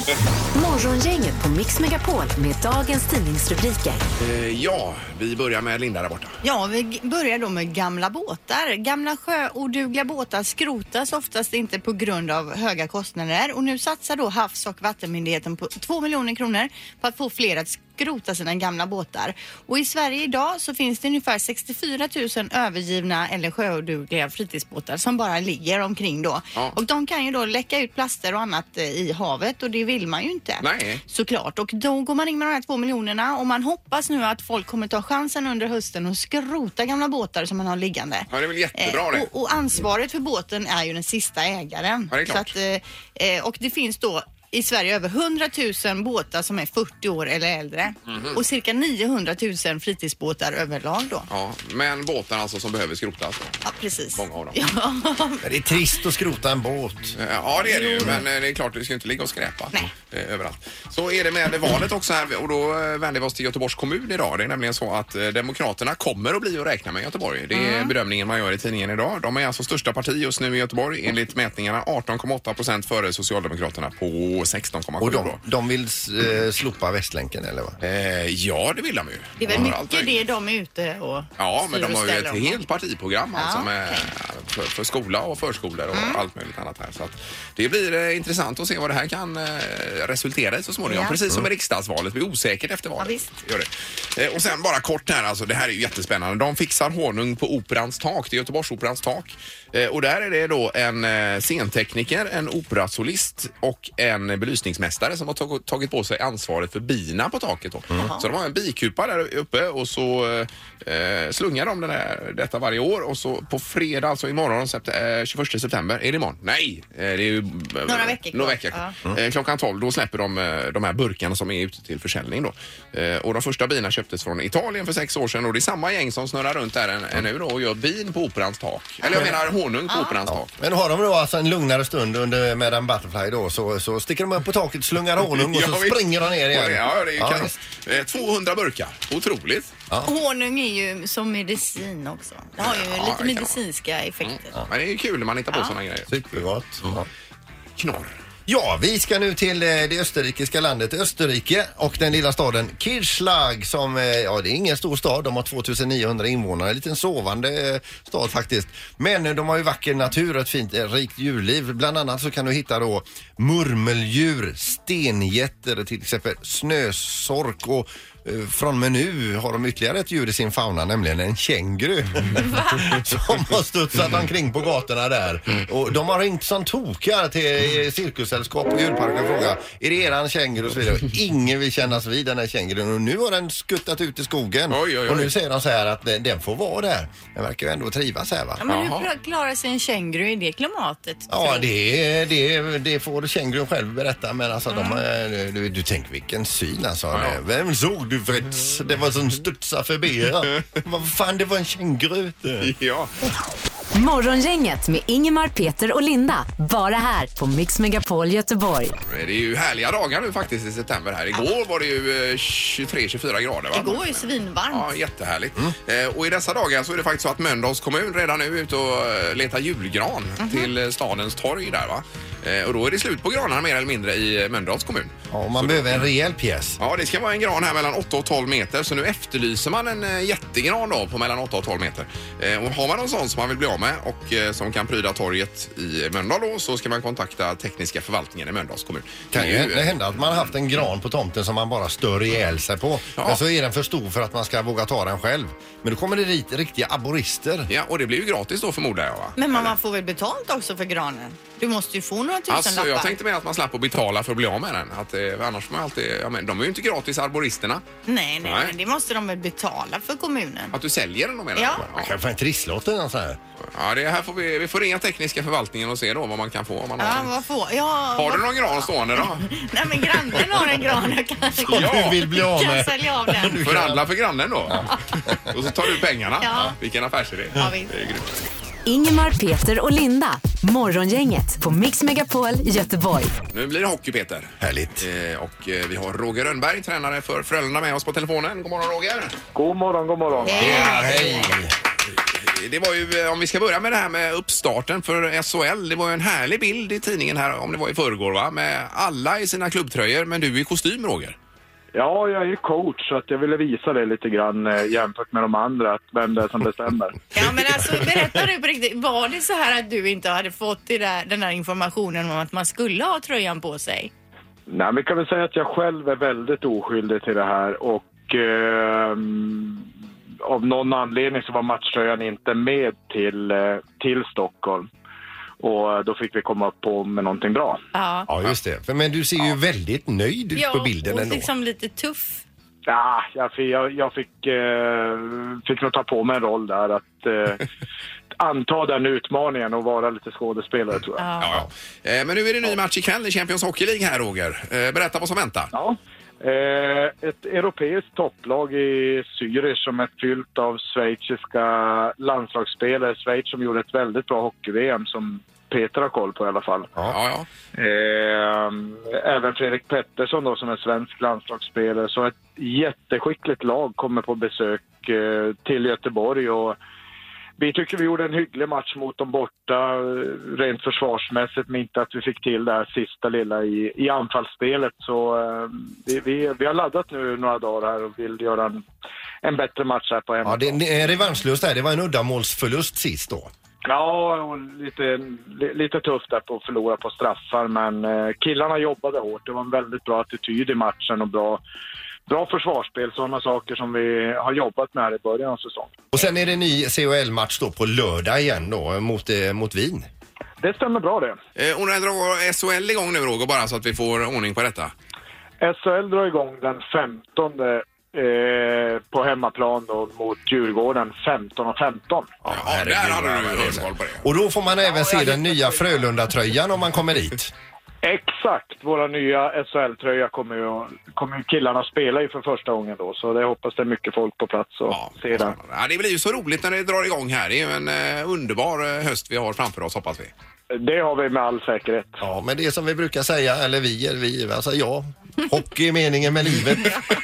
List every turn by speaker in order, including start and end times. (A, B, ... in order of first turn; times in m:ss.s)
0:00.5-0:04.0 A
0:04.2-0:06.4 B
0:06.4-0:51.3 C
0:30.6-0:31.0 B
0:38.3-0:39.3 B
0:42.1-0:42.5 B
0:48.1-0:48.4 B
0:51.3-0:53.6 B
0:53.6-0:55.5 C
0:54.2-0:54.6 B
0:55.4-0:57.2 D
0:57.2-1:15.4 B
0:57.7-0:58.2 C
1:07.5-1:07.9 C
1:15.0-1:17.8 D
1:17.8-1:20.2 B
1:19.4-1:22.6 C
1:21.4-2:10.6 B
1:23.4-1:24.1 C
1:25.9-1:26.2 C
1:30.9-1:31.2 C
1:33.0-1:33.3 C
1:48.0-1:48.3 C
1:57.9-1:59.0 C
2:09.9-2:10.2 C
2:10.3-2:17.6 D
2:15.3-2:19.7 B
2:20.0-2:24.5 C
2:22.6-2:23.6 B
2:24.2-2:27.0 B
2:26.1-2:27.1 D
2:27.8-2:28.1 B
2:28.5-3:08.6 D
2:52.5-2:52.8 C
3:04.7-3:05.3 B
3:08.6-3:11.7 C
3:08.7-3:09.1 B
3:11.3-3:22.7 D
3:14.7-3:15.0 C
3:17.1-3:17.4 B
3:22.6-3:23.1 B
3:23.9-3:29.0 A
3:29.1-3:46.0 B
3:33.7-3:34.9 C
3:40.4-3:40.7 C
3:45.3-3:46.8 D
3:46.8-4:00.0 B
3:59.3-4:07.7 D
4:07.7-4:09.7 B
4:09.4-4:13.2 C
4:12.5-4:17.8 B
4:18.1-4:20.8 C
4:18.4-4:18.7 B
4:20.7-4:22.2 B
4:21.6-4:21.8 C
4:21.8-4:23.4 D
4:23.7-4:27.3 B
4:27.0-4:33.6 C
4:28.2-4:29.5 B
4:31.7-4:32.2 B
4:31.7-4:34.0 D
4:33.6-4:38.3 B
4:34.7-4:35.6 D
4:36.4-4:36.8 C
4:37.6-4:37.9 C
4:38.9-4:43.4 A
4:43.5-4:49.4 B
4:44.6-4:45.1 D
4:49.5-4:50.8 E
4:50.4-4:51.5 C
4:50.5-4:51.7 D
4:52.3-5:01.4 B
5:01.9-5:07.2 E
5:07.3-5:14.1 C
5:14.7-5:19.9 E
5:20.4-5:24.9 E
5:25.6-5:27.8 E
5:27.9-5:28.3 C
5:28.3-5:31.5 D
5:30.6-5:32.4 C
5:32.9-5:37.7 E
5:38.4-5:41.3 E
5:41.2-5:41.6 C
5:41.4-5:45.7 B
5:45.7-5:56.9 E
5:57.1-5:57.5 B
5:57.7-6:06.8 E
6:07.6-6:18.8 E
6:19.4-6:20.8 E
6:20.4-6:23.5 D
6:23.8-6:31.6 E
6:32.3-6:36.0 E
6:36.1-6:40.1 D
6:40.6-6:41.4 E
6:41.6-6:44.9 B
6:45.6-6:52.3 E
6:52.4-6:57.5 D
6:52.5-6:54.2 B
6:58.0-7:05.6 E
7:04.9-7:10.3 B
7:10.7-7:12.2 E
7:12.2-7:17.0 D